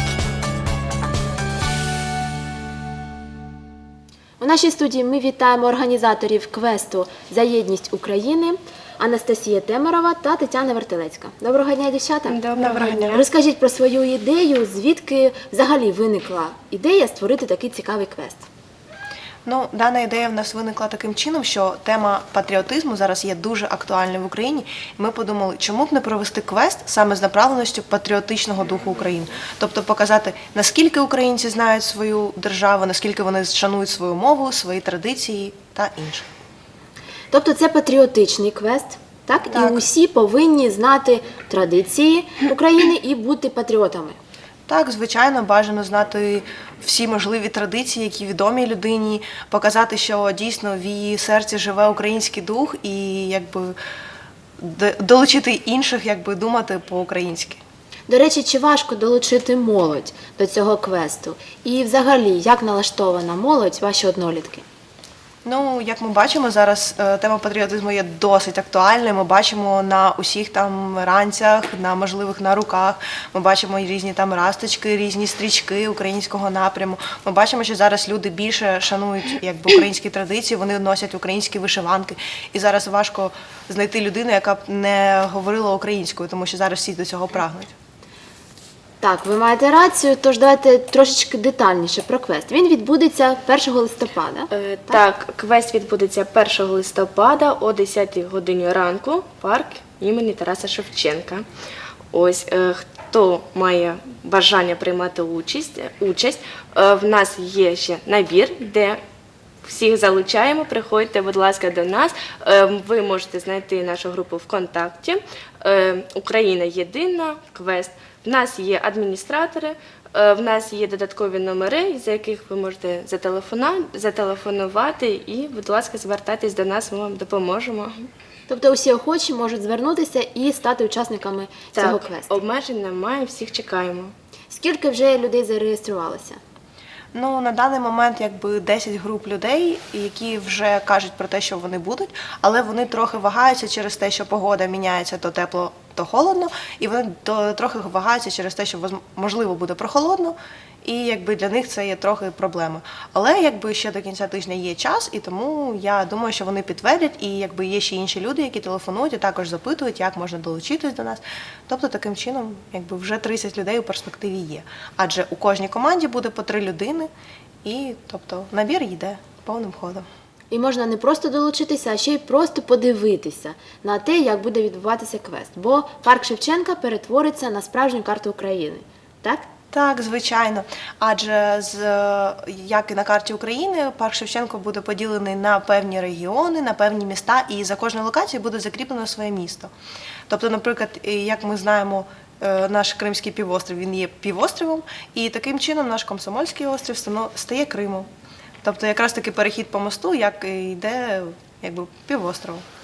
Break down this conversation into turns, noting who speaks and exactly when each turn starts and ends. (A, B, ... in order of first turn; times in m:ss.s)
0:04.4-0:12.4 A
0:12.3-0:13.2 B
0:12.6-0:13.2 C
0:13.0-0:18.5 A
0:19.4-0:36.3 C
0:37.3-0:44.2 A
0:39.5-0:39.9 C
0:44.7-0:53.8 C
0:54.6-0:57.6 C
0:58.1-1:04.6 A
1:05.4-1:27.7 C
1:29.0-1:35.0 A
1:34.5-1:41.4 B
1:42.1-1:49.0 B
1:49.6-2:08.1 B
2:08.5-2:12.4 A
2:11.7-2:14.1 B
2:14.5-2:16.4 A
2:17.1-2:47.1 C
2:47.6-2:50.1 C
2:50.5-2:59.5 A
2:59.7-3:09.7 C
3:10.3-3:18.1 C
3:18.6-3:22.6 C